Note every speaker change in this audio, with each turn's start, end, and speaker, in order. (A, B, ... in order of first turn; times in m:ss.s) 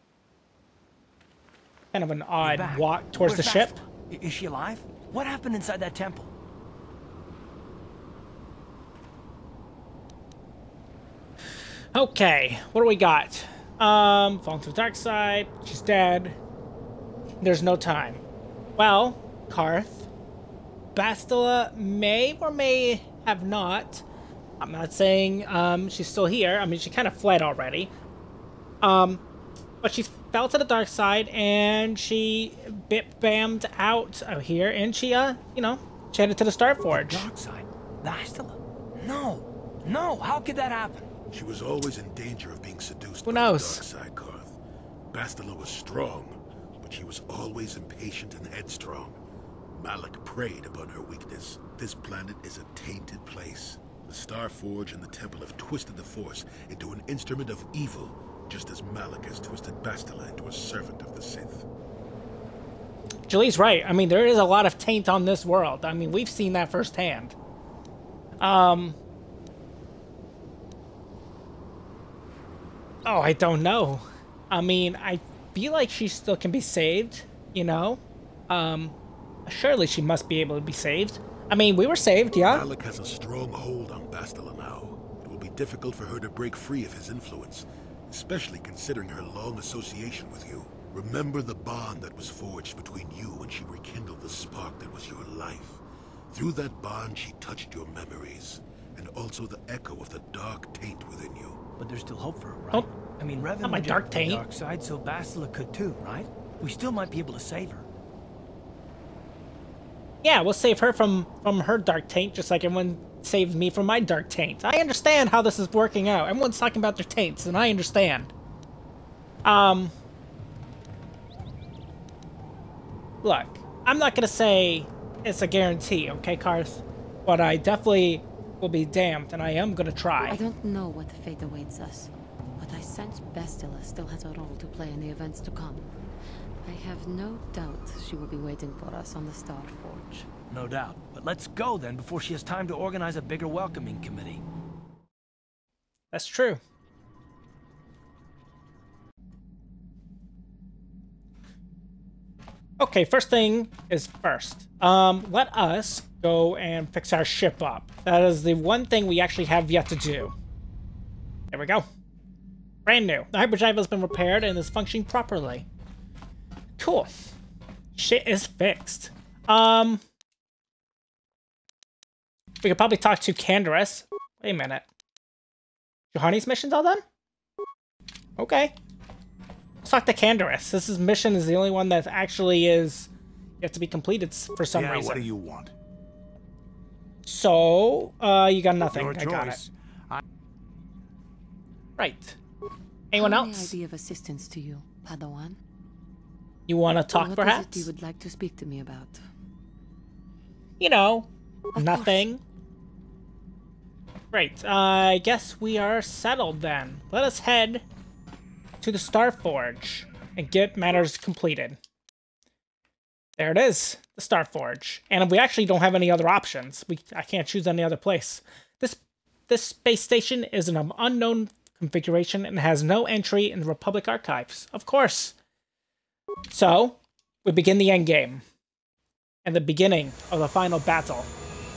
0:01.9-0:03.8 A
0:02.4-0:06.3 B
0:11.9-0:16.4 A
0:17.4-0:18.2 A
0:18.8-0:20.1 A
0:20.9-0:24.0 A
0:24.6-0:27.9 A
0:28.8-0:29.2 A
0:29.8-0:37.3 A
0:36.9-0:41.0 B
0:41.3-0:44.6 C
0:43.2-0:43.8 A
0:45.1-0:49.2 C
0:49.7-1:01.6 C
1:03.3-1:07.3 A
1:08.4-1:09.0 A
1:13.0-1:18.9 A
1:19.5-1:22.6 A
1:22.4-1:35.8 C
1:36.3-1:41.6 C
1:41.8-1:47.8 B
1:43.6-1:44.4 A
1:50.2-1:58.3 A
1:59.4-1:59.9 A
2:03.2-2:10.4 A
2:10.3-2:15.9 D
2:16.6-2:20.3 D
2:20.5-2:24.4 B
2:26.1-2:26.6 A
2:32.8-2:40.3 A
2:41.5-2:41.9 A
2:42.8-2:45.6 A
2:46.8-2:47.1 A
2:47.9-2:50.0 A
2:52.6-2:54.8 A
2:56.1-2:57.0 A
2:58.4-2:58.7 A
2:59.8-3:03.1 A
3:03.6-3:05.3 A
3:04.7-3:05.7 E
3:07.2-3:09.6 A
3:08.9-3:10.2 E
3:12.0-3:12.4 A
3:13.1-3:13.8 A
3:13.1-3:15.6 D
3:16.7-3:17.9 A
3:17.1-3:19.2 D
3:20.8-3:22.4 A
3:21.7-3:22.2 D
3:24.3-3:27.8 A
3:28.8-3:31.8 A
3:33.4-3:45.3 A
3:46.5-3:48.4 A
3:49.4-3:51.3 A